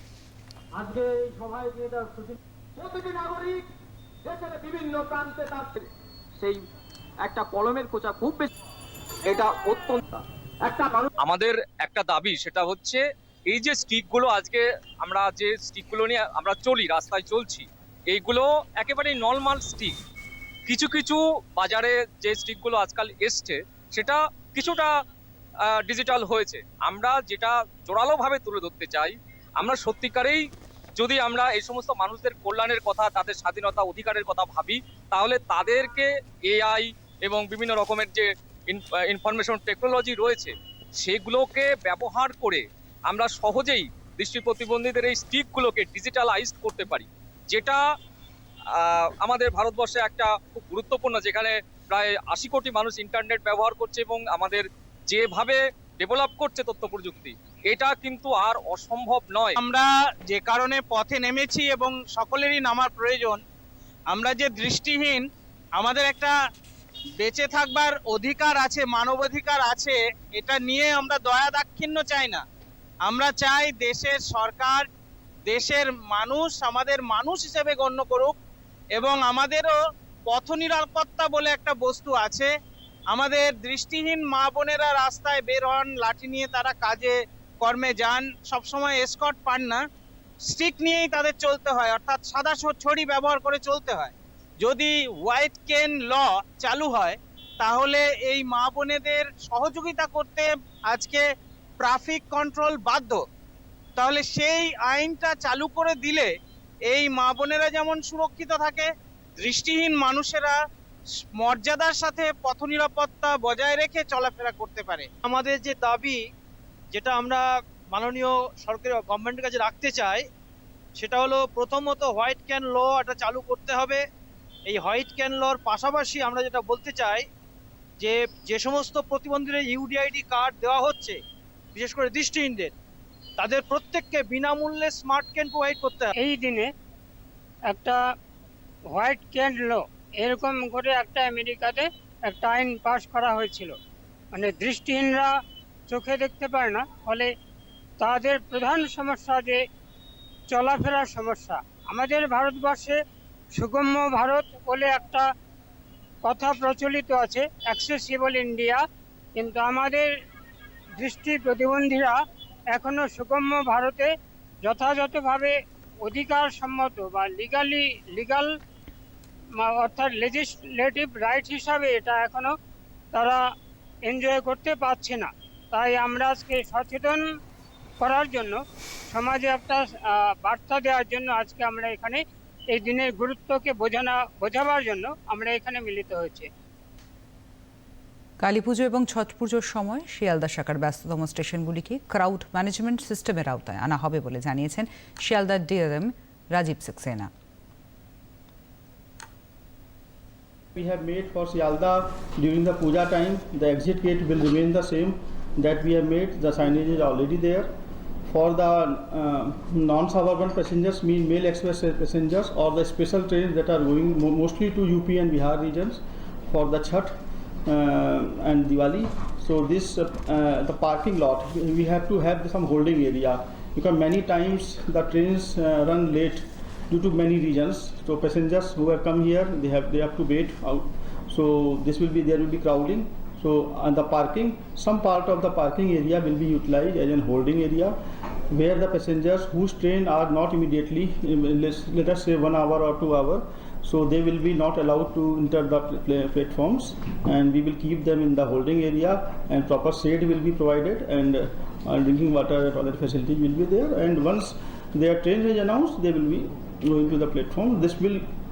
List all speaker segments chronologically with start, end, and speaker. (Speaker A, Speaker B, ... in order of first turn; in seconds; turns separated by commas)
Speaker A: 0.8-3.6, Speaker B: 2.9-3.5, Speaker A: 4.3-5.7, Speaker B: 4.3-5.7, Speaker A: 7.2-8.4, Speaker B: 7.3-8.5, Speaker B: 9.3-10.0, Speaker A: 9.3-10.0, Speaker A: 10.7-11.1, Speaker B: 10.7-20.0, Speaker B: 20.7-24.9, Speaker B: 25.7-30.4, Speaker B: 31.0-47.8, Speaker B: 48.8-59.6, Speaker C: 59.6-63.4, Speaker C: 64.1-65.2, Speaker C: 65.8-66.3, Speaker C: 67.2-72.4, Speaker C: 73.0-74.8, Speaker C: 75.5-78.4, Speaker C: 79.0-79.8, Speaker C: 80.3-82.5, Speaker C: 83.1-89.8, Speaker C: 90.5-101.2, Speaker C: 101.8-103.2, Speaker C: 104.0-106.3, Speaker C: 106.9-108.9, Speaker C: 109.4-110.6, Speaker C: 111.4-115.1, Speaker D: 115.2-116.2, Speaker D: 116.9-120.3, Speaker D: 121.0-124.0, Speaker D: 124.7-127.3, Speaker D: 128.0-131.2, Speaker D: 131.8-132.7, Speaker D: 133.4-136.1, Speaker E: 136.2-136.7, Speaker E: 137.7-138.0, Speaker E: 138.9-143.8, Speaker E: 144.3-145.3, Speaker E: 145.9-147.3, Speaker E: 148.0-149.6, Speaker E: 150.5-153.0, Speaker E: 153.6-155.3, Speaker E: 156.2-158.8, Speaker E: 159.4-160.1, Speaker E: 161.0-162.2, Speaker E: 162.7-164.1, Speaker E: 164.6-168.5, Speaker E: 169.6-172.6, Speaker E: 173.1-173.4, Speaker E: 174.1-177.2, Speaker E: 178.0-186.5, Speaker F: 188.4-197.3, Speaker G: 200.8-207.7, Speaker G: 208.3-217.2, Speaker G: 217.7-238.0, Speaker G: 238.5-258.2